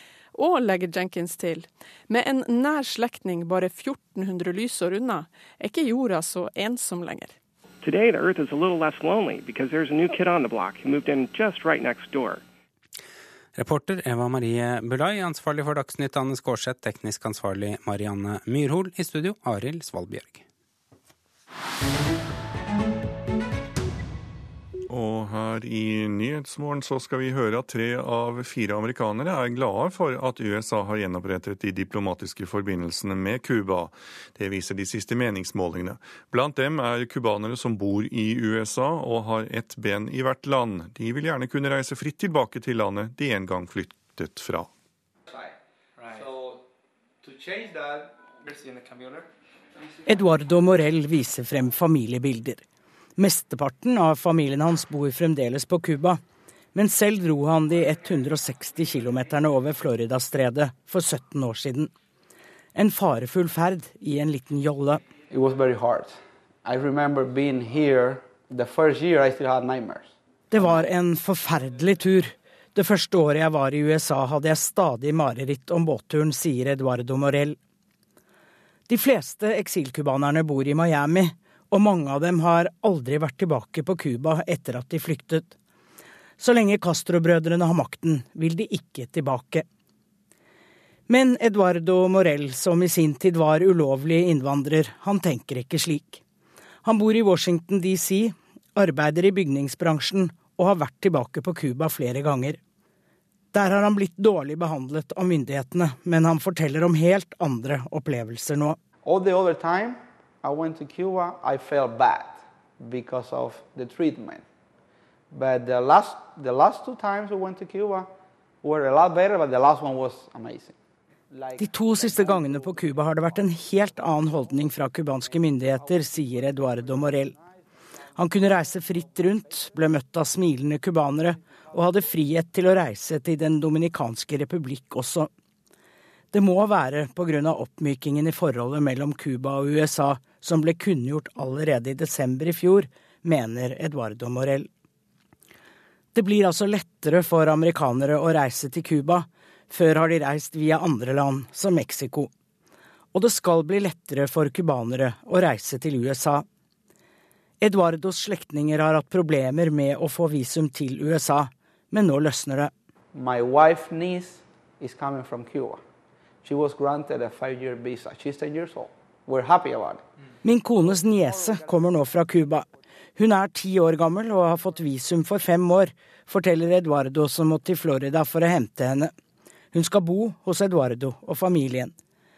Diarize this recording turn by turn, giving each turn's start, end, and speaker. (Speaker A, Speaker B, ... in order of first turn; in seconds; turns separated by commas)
Speaker A: 0.3-7.3, Speaker B: 7.8-12.4, Speaker C: 13.5-20.4, Speaker D: 24.9-44.7, Speaker E: 50.0-52.6, Speaker E: 53.2-56.2, Speaker E: 56.7-61.9, Speaker E: 62.7-65.0, Speaker F: 65.3-70.9, Speaker E: 70.5-77.6, Speaker E: 78.9-85.5, Speaker E: 86.4-89.6, Speaker E: 91.1-96.2, Speaker E: 96.8-102.6, Speaker E: 103.5-108.8, Speaker F: 109.0-114.4, Speaker F: 115.3-118.1, Speaker F: 118.6-120.8, Speaker F: 121.3-122.5, Speaker E: 121.5-127.3, Speaker E: 128.2-135.3, Speaker E: 136.3-144.7, Speaker E: 146.1-152.3, Speaker E: 153.1-156.4, Speaker E: 157.6-162.7, Speaker F: 163.1-165.8, Speaker F: 166.4-170.0, Speaker E: 170.4-179.1, Speaker E: 179.7-181.9